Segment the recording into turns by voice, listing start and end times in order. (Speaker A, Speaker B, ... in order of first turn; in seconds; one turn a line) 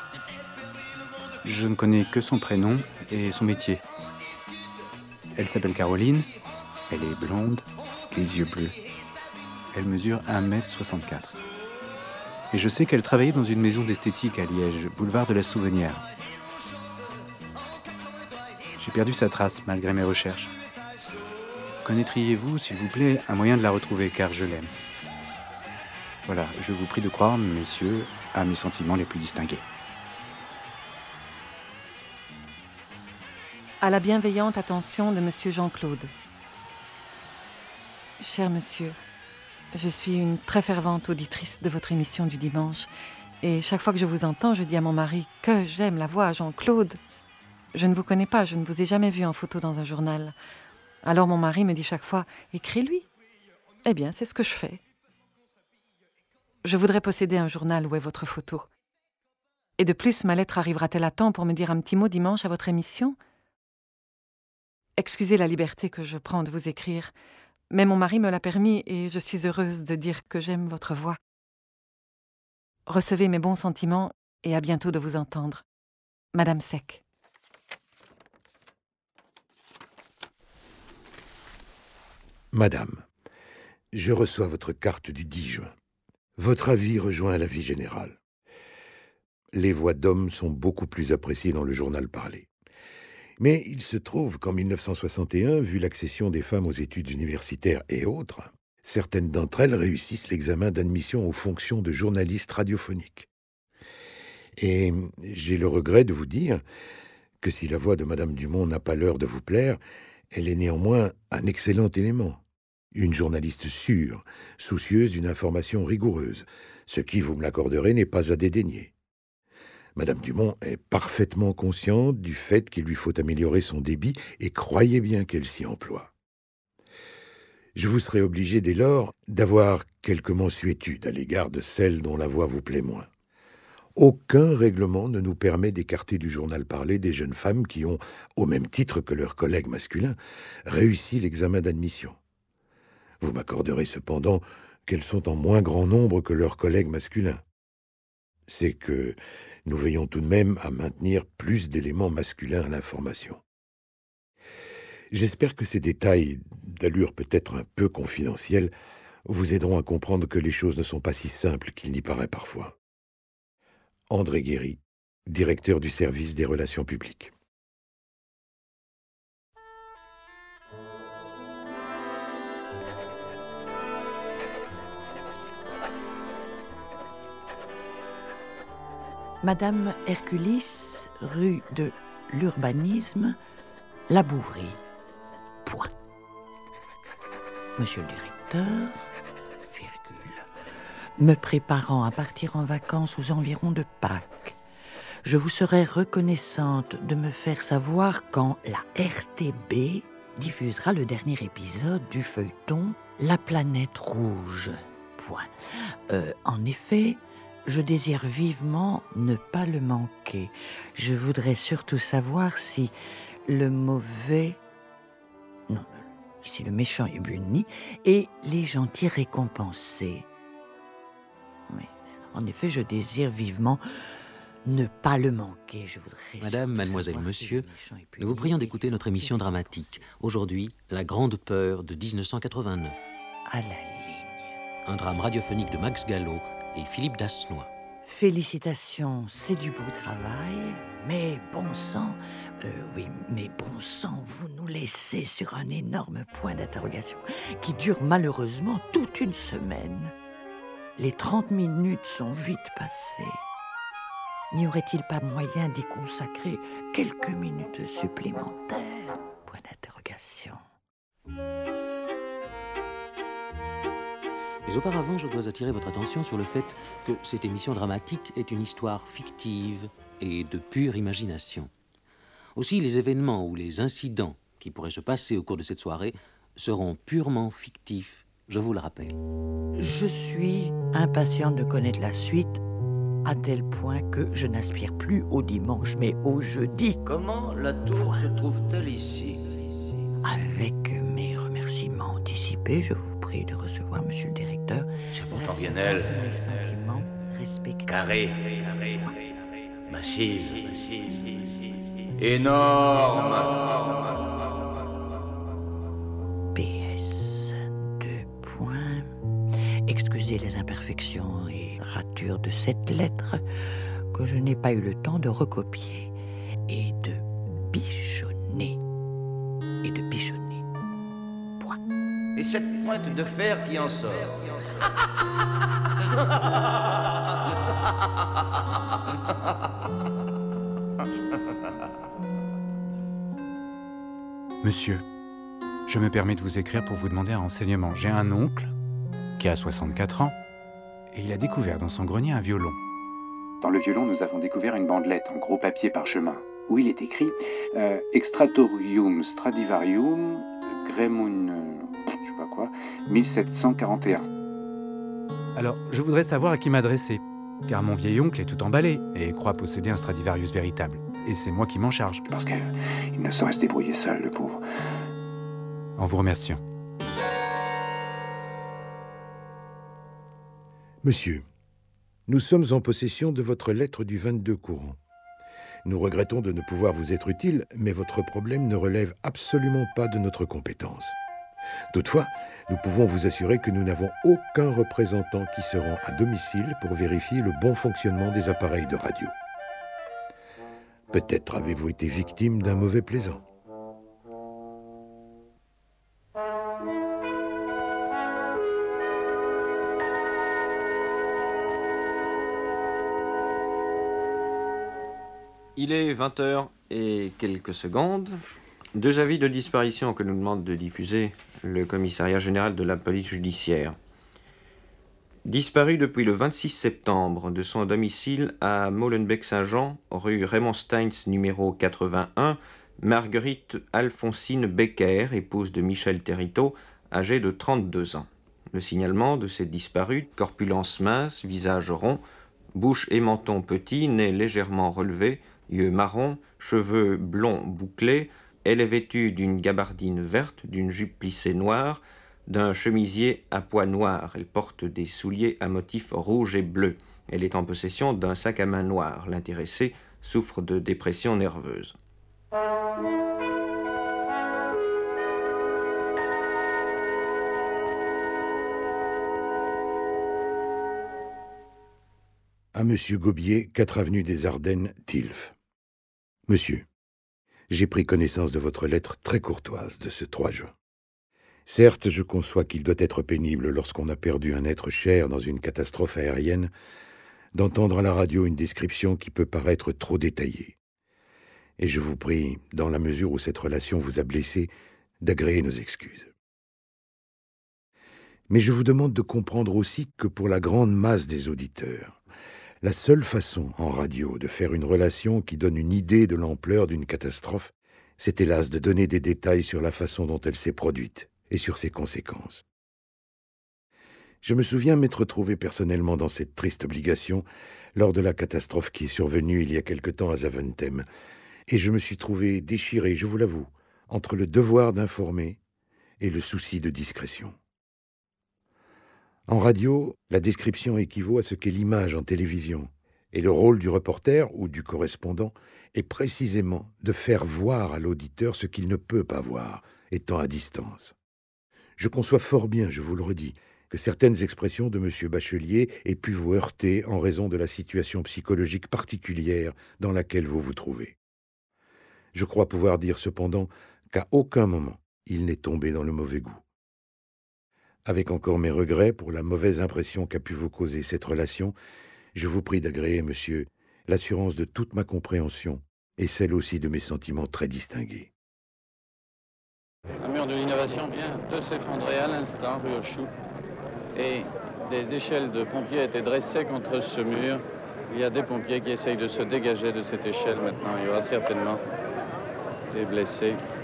Speaker A: 1.4-3.8
Speaker A: 5.4-6.3
Speaker A: 6.9-8.8
Speaker A: 9.7-11.4
Speaker A: 12.5-16.1
Speaker A: 18.8-20.5
Speaker A: 21.8-24.7
Speaker A: 26.3-29.6
Speaker B: 33.8-36.1
Speaker B: 38.2-39.0
Speaker B: 39.7-42.9
Speaker B: 43.4-47.0
Speaker B: 47.7-50.4
Speaker B: 51.0-53.0
Speaker B: 53.9-54.8
Speaker B: 56.6-58.7
Speaker B: 59.8-63.2
Speaker B: 65.0-67.1
Speaker B: 67.7-71.2
Speaker B: 72.9-75.6
Speaker B: 76.3-77.0
Speaker C: 82.5-83.0
Speaker C: 83.9-85.7
Speaker C: 86.4-88.2
Speaker C: 89.5-92.5
Speaker C: 93.4-103.3
Speaker C: 104.6-106.6
Speaker C: 107.4-109.8
Speaker C: 110.3-112.4
Speaker C: 112.9-118.9
Speaker C: 120.0-126.1
Speaker C: 127.8-133.1
Speaker C: 134.0-140.2
Speaker C: 140.7-142.2
Speaker C: 143.2-147.4
Speaker C: 148.5-153.4
Speaker C: 155.1-158.7
Speaker C: 159.3-162.7
Speaker C: 164.1-167.3
Speaker D: 179.4-183.4
Speaker D: 184.1-184.8
Speaker D: 185.7-185.9
Speaker D: 187.8-189.1
Speaker D: 189.7-190.5
Speaker D: 191.2-194.6
Speaker D: 195.2-205.5
Speaker D: 206.1-212.9
Speaker D: 213.5-214.6
Speaker D: 215.7-220.3
Speaker D: 221.7-223.8
Speaker D: 224.7-230.0
Speaker E: 226.4-233.2
Speaker D: 233.5-234.6
Speaker E: 234.9-237.7
Speaker D: 238.0-250.1
Speaker D: 251.0-253.4
Speaker D: 254.5-260.6
Speaker E: 264.7-271.7
Speaker E: 272.6-279.2
Speaker D: 279.8-282.6
Speaker D: 283.2-287.0
Speaker F: 287.1-289.5
Speaker D: 288.0-288.4
Speaker D: 290.2-298.2
Speaker F: 295.2-296.2
Speaker F: 297.9-298.6
Speaker D: 298.9-299.2
Speaker F: 299.9-301.2
Speaker F: 302.2-303.8
Speaker D: 306.5-309.1
Speaker D: 309.9-313.4
Speaker D: 314.1-316.1
Speaker D: 316.7-318.8
Speaker D: 319.8-320.6
Speaker F: 322.8-324.4
Speaker A: 334.6-335.0
Speaker A: 335.9-338.7
Speaker A: 339.4-340.4
Speaker A: 341.1-342.8
Speaker A: 343.6-354.3
Speaker A: 355.6-364.6
Speaker A: 366.0-366.6
Speaker C: 371.0-371.4
Speaker C: 372.3-375.0
Speaker C: 375.9-381.2
Speaker C: 381.9-389.3
Speaker C: 391.1-393.4
Speaker G: 405.8-408.4
Speaker G: 409.0-414.0
Speaker G: 415.5-432.2
Speaker G: 432.8-451.9
Speaker C: 462.7-465.5
Speaker C: 466.5-466.9
Speaker C: 467.7-470.7
Speaker C: 471.7-476.7
Speaker C: 477.5-480.8
Speaker C: 481.8-484.7
Speaker C: 485.2-486.3
Speaker C: 488.5-492.2
Speaker C: 492.8-502.6
Speaker C: 504.4-511.1
Speaker C: 511.7-515.6
Speaker C: 516.2-517.6
Speaker C: 519.5-531.1
Speaker C: 532.0-541.2
Speaker C: 542.3-546.6
Speaker C: 548.1-551.8
Speaker C: 552.4-558.3
Speaker H: 560.2-563.3
Speaker H: 564.1-571.8
Speaker H: 572.9-573.6